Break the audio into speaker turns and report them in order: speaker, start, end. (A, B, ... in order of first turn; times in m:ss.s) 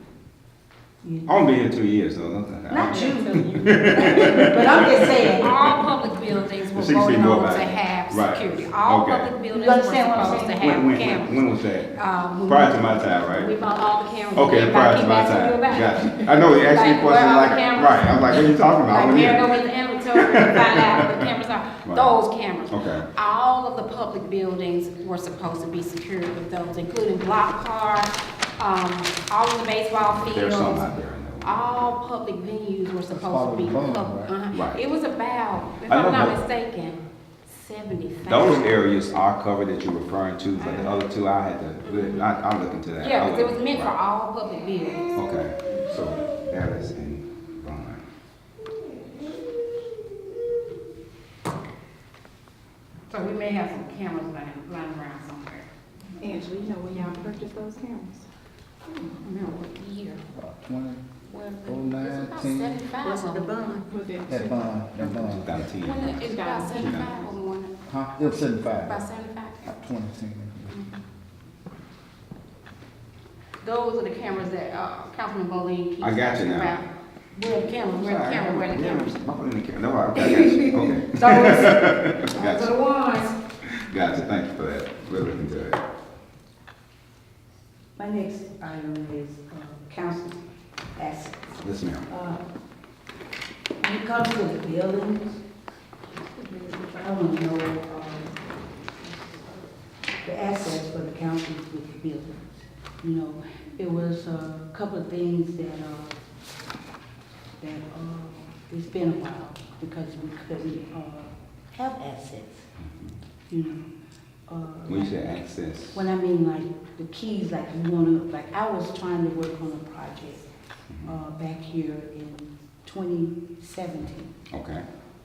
0:01.0-0:01.4 A
0:01.2-0:05.8 B
0:02.7-0:05.5 A
0:03.0-0:04.1 C
0:04.9-0:38.8 D
0:06.7-0:09.3 B
0:09.5-0:10.6 A
0:10.2-0:11.9 B
0:12.5-0:13.5 B
0:14.3-0:21.1 B
0:21.8-0:22.2 B
0:22.7-0:23.1 B
0:30.3-0:31.9 B
0:33.1-0:34.3 E
0:34.5-0:34.8 B
0:35.8-0:36.4 B
0:38.3-0:43.9 B
0:41.9-0:42.2 D
0:43.0-0:45.2 D
0:45.1-0:48.0 B
0:53.1-0:55.6 D
0:56.2-0:58.2 C
0:59.2-1:00.2 D
1:00.4-1:01.0 E
1:01.3-1:03.6 D
1:01.6-1:02.8 E
1:03.0-1:04.0 A
1:03.9-1:04.8 C
1:04.3-1:05.6 E
1:04.9-1:07.2 B
1:05.8-1:07.7 D
1:06.2-1:06.9 C
1:07.9-1:09.0 E
1:08.8-1:09.6 D
1:09.6-1:10.7 E
1:13.6-1:19.2 D
1:16.0-1:16.8 B
1:17.9-1:22.8 B
1:20.2-1:23.3 D
1:23.6-1:25.8 B
1:28.0-1:30.4 A
1:31.0-1:32.4 A
1:31.6-1:32.0 B
1:33.8-1:35.4 A
1:36.3-1:37.0 C
1:36.7-1:38.3 A
1:40.2-1:46.2 A
1:47.6-1:52.6 A
1:52.8-1:53.2 B
1:53.5-1:53.9 A
1:54.5-1:55.4 A
1:54.8-1:56.0 B
1:55.9-2:00.4 A
2:01.0-2:04.3 A
2:04.5-2:04.8 B